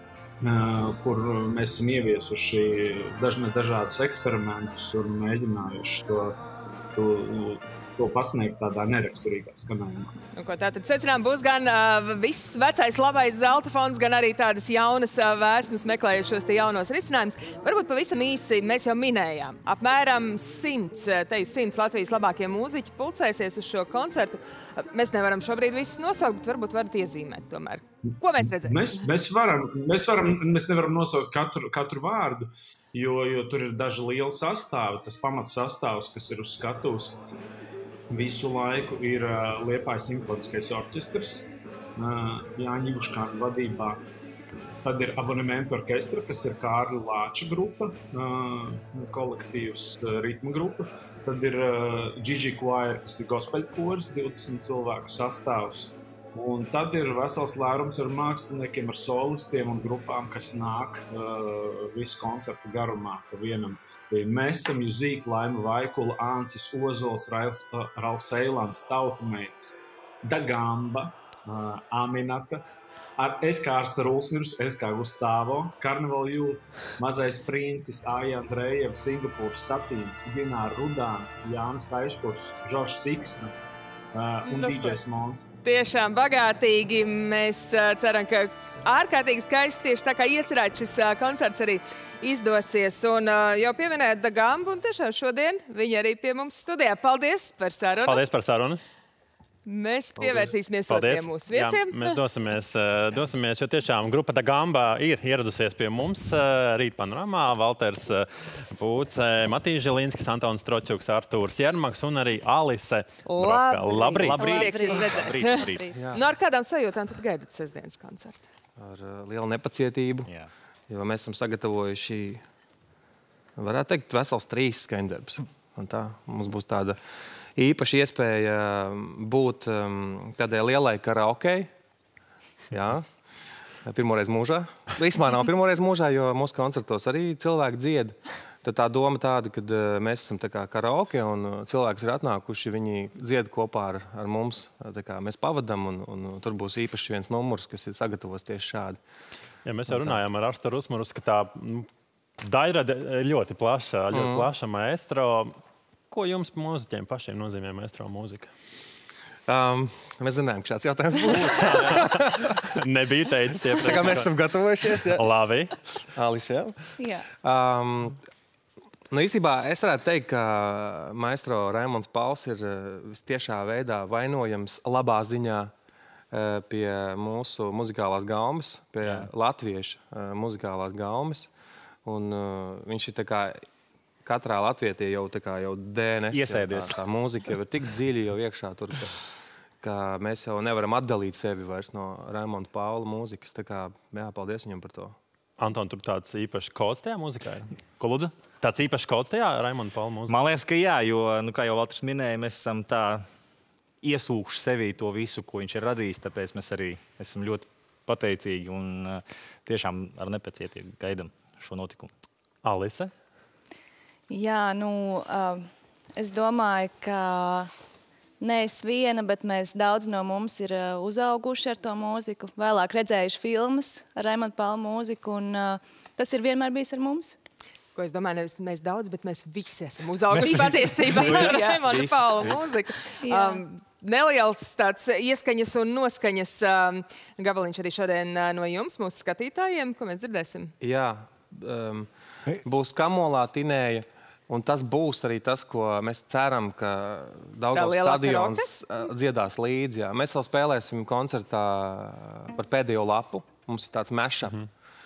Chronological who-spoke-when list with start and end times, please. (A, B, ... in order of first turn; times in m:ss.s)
0:00.4-0:06.4 A
0:06.9-0:10.1 A
0:10.3-0:29.1 B
0:28.6-0:37.2 A
0:38.1-0:44.0 A
0:44.8-1:12.6 A
1:13.2-1:23.6 A
1:24.1-1:25.5 A
1:24.5-1:25.0 B
1:25.6-1:38.2 B
1:38.0-1:38.8 C
1:39.6-1:42.1 B
1:40.2-1:54.5 C
1:53.3-1:58.4 B
1:54.1-1:55.1 D
1:54.2-1:54.6 E
1:55.2-1:55.8 E
1:55.9-1:56.2 F
1:58.8-2:00.3 F
2:00.2-2:00.5 E
2:00.9-2:02.4 F
2:03.6-2:07.0 F
2:07.6-2:11.7 F
2:12.7-2:13.1 F
2:13.8-2:29.0 F
2:29.6-2:31.9 C
2:29.9-2:30.2 F
2:32.4-2:35.5 C
2:34.1-2:34.5 F
2:36.1-2:38.5 C
2:39.5-2:42.5 F
2:41.3-2:44.3 C
2:43.8-2:45.2 F
2:45.1-2:45.8 C
2:46.1-2:48.2 F
2:49.1-2:55.7 F
2:56.3-3:01.5 F
2:59.0-2:59.3 E
3:02.1-3:03.6 F
3:04.2-3:09.1 F
3:06.3-3:07.0 E
3:09.8-3:15.1 F
3:15.6-3:17.7 C
3:18.0-3:18.3 E
3:18.6-3:20.4 C
3:20.3-3:23.2 E
3:24.0-3:32.1 E
3:32.6-3:33.1 C
3:34.3-3:37.7 D
3:38.4-3:47.4 D
3:47.9-4:00.7 B
3:50.4-3:51.4 E
3:51.5-3:51.8 D
3:52.1-3:52.5 E
3:53.2-3:53.6 D
4:00.8-4:02.1 F
4:02.6-4:14.6 F
4:07.7-4:08.7 B